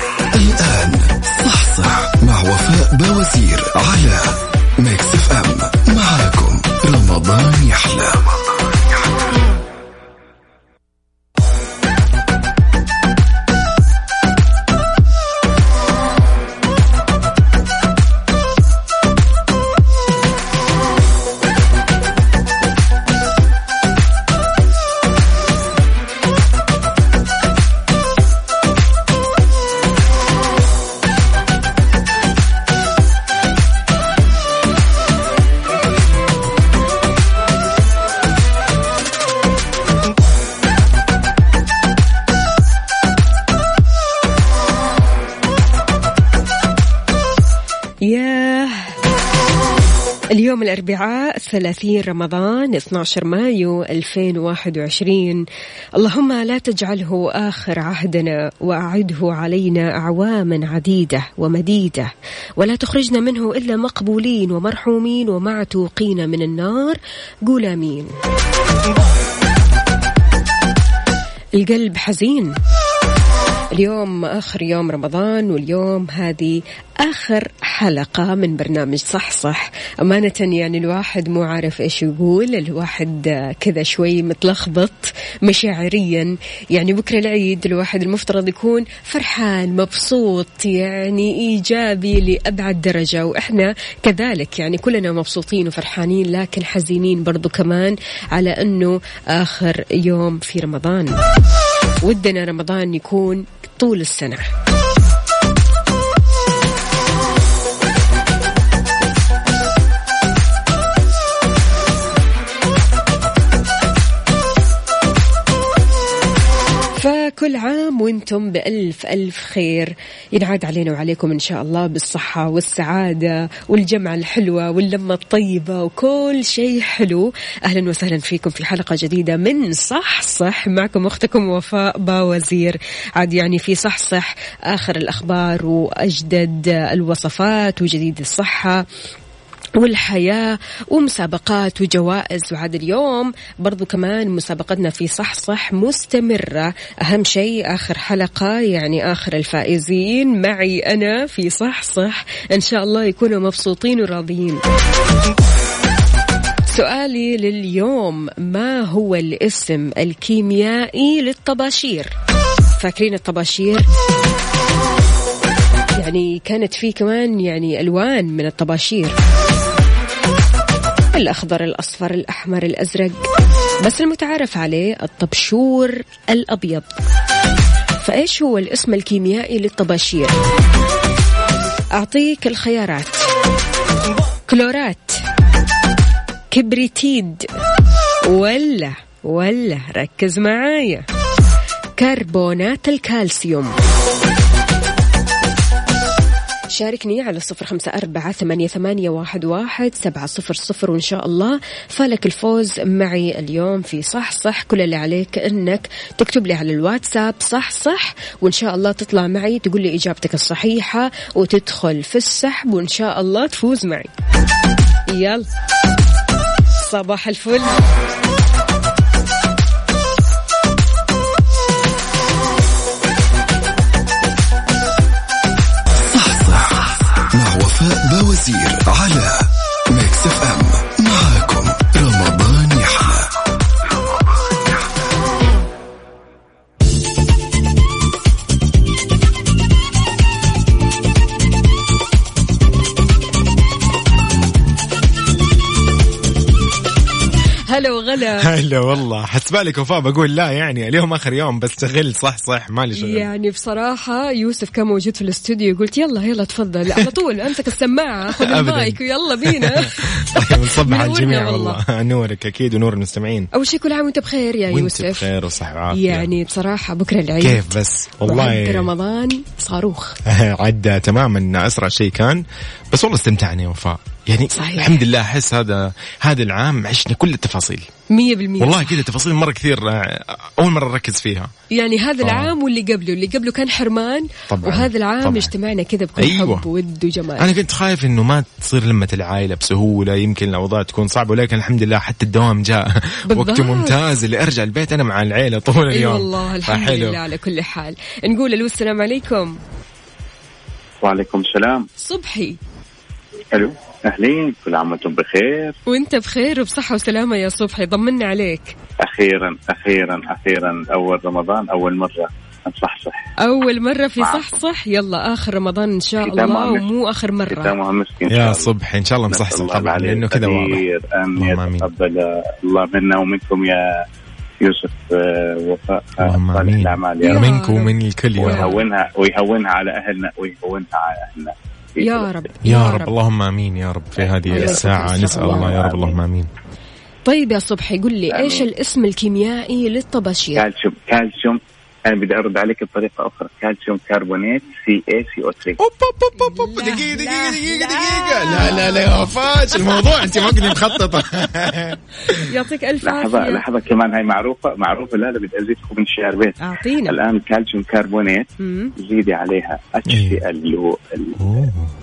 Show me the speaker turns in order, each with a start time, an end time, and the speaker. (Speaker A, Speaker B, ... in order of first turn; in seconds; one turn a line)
Speaker A: 0.3-8.2
Speaker B: 48.1-49.0
Speaker B: 50.3-55.4
Speaker B: 56.0-68.1
Speaker B: 71.5-72.5
Speaker B: 73.7-101.2
Speaker B: 102.0-104.5
Speaker B: 117.0-138.8
Speaker B: 139.8-154.6
Speaker B: 156.7-162.1
Speaker B: 162.8-163.9
Speaker B: 166.0-169.2
Speaker B: 171.1-173.2
Speaker B: 173.8-177.0
Speaker B: 178.0-180.3
Speaker B: 181.9-183.2
Speaker B: 184.5-185.2
Speaker B: 186.5-187.5
Speaker B: 188.3-191.1
Speaker B: 192.0-193.7
Speaker B: 196.7-214.1
Speaker B: 215.1-215.5
Speaker B: 216.8-217.8
Speaker A: 226.1-233.3
Speaker B: 247.7-248.5
Speaker C: 248.4-253.3
Speaker B: 252.9-261.8
Speaker C: 258.3-263.5
Speaker B: 263.5-265.3
Speaker C: 264.7-266.3
Speaker B: 265.9-270.2
Speaker C: 267.4-268.9
Speaker C: 270.2-277.9
Speaker B: 274.5-275.0
Speaker B: 278.1-279.0
Speaker C: 278.6-281.5
Speaker B: 281.7-287.5
Speaker C: 282.2-282.6
Speaker C: 284.5-285.5
Speaker C: 286.2-286.7
Speaker C: 287.4-297.2
Speaker B: 293.3-294.0
Speaker B: 295.9-299.6
Speaker D: 301.0-301.9
Speaker B: 302.0-302.6
Speaker D: 303.5-305.8
Speaker B: 305.9-308.8
Speaker D: 309.0-313.2
Speaker B: 313.4-317.8
Speaker D: 314.2-314.5
Speaker D: 316.2-316.9
Speaker D: 317.5-318.7
Speaker C: 318.3-320.8
Speaker D: 319.3-324.0
Speaker C: 321.4-321.9
Speaker D: 324.6-327.5
Speaker C: 326.2-328.8
Speaker B: 327.2-328.8
Speaker D: 328.4-332.3
Speaker B: 332.0-333.1
Speaker C: 332.6-336.5
Speaker D: 334.2-336.2
Speaker B: 334.5-335.8
Speaker B: 337.3-340.7
Speaker D: 338.3-338.6
Speaker D: 340.6-345.8
Speaker C: 345.8-352.5
Speaker B: 346.4-349.1
Speaker B: 352.3-353.6
Speaker D: 353.0-361.4
Speaker B: 356.6-357.2
Speaker B: 358.6-358.9
Speaker C: 360.1-360.4
Speaker C: 361.4-361.9